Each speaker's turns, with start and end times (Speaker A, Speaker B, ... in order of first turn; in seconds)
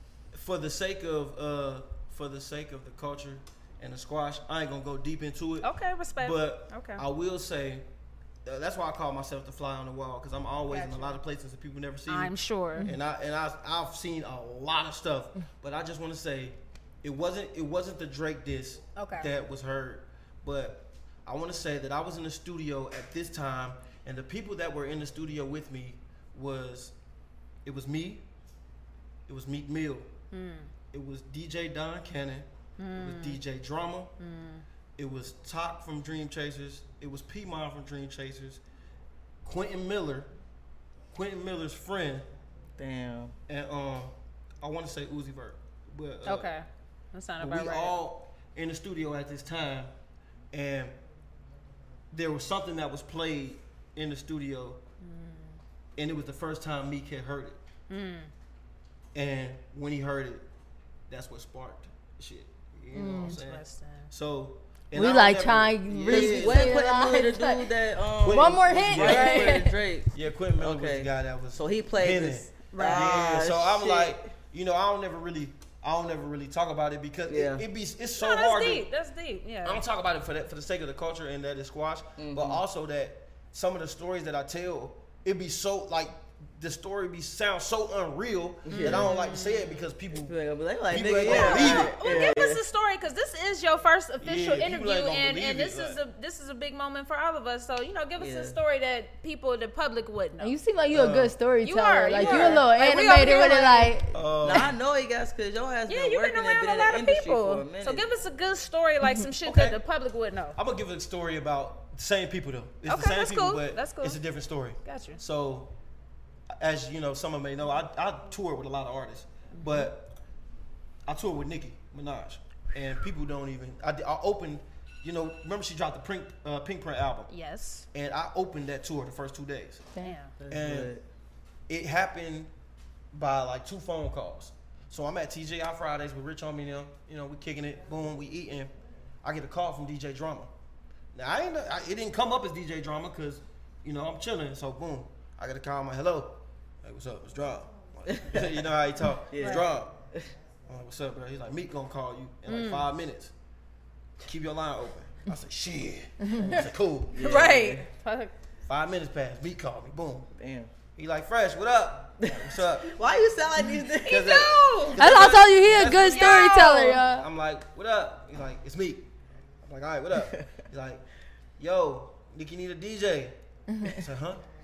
Speaker A: 0.3-7.8, 8.4-26.9, 27.6-28.2, 29.3-30.1, 30.9-34.1, 35.0-38.6, 39.4-40.3, 41.1-42.3, 43.5-46.5, 47.4-49.9, 50.5-51.0, 52.1-54.8, 56.0-57.6, 59.1-60.5, 61.1-66.8, 68.2-78.9, 79.6-90.3, 90.9-92.0, 94.2-96.0, 100.9-101.4, 102.2-102.6, 104.1-104.7, 109.4-109.8, 110.6-115.7, 116.6-120.1, 121.1-127.3, 127.9-129.8, 130.5-130.9, 131.7-132.5, 133.1-140.5, 141.1-149.9, 150.7-153.3, 154.2-157.2, 158.7-160.3, 160.9-162.9, 164.1-169.1, 169.6-171.0, 171.6-174.4
Speaker B: 5.6-7.0, 10.7-11.2, 12.1-12.9, 18.9-19.3, 30.3-30.7, 32.8-33.4, 34.2-34.6, 46.2-47.9, 55.0-55.6, 57.9-58.3, 63.3-64.1, 72.7-73.2, 78.2-79.8, 88.7-89.8, 91.2-100.6, 101.6-103.9, 105.9-110.6, 112.9-114.2, 114.8-115.2, 119.5-119.9, 127.3-127.9, 130.0-130.3, 152.5-152.9, 157.2-158.3, 164.1-165.2, 165.8-167.0
Speaker C: 42.8-43.4, 66.1-74.2, 77.3-77.6, 82.2-82.6, 88.7-89.1, 90.1-92.6, 98.2-98.6, 104.4-108.1, 130.4-131.0, 148.1-148.6, 149.3-150.3, 157.1-157.9, 160.4-160.7, 162.2-164.4, 170.2-170.5
Speaker D: 62.9-63.4, 64.9-67.7, 68.3-69.7, 100.4-104.2, 156.3-156.6, 165.0-167.2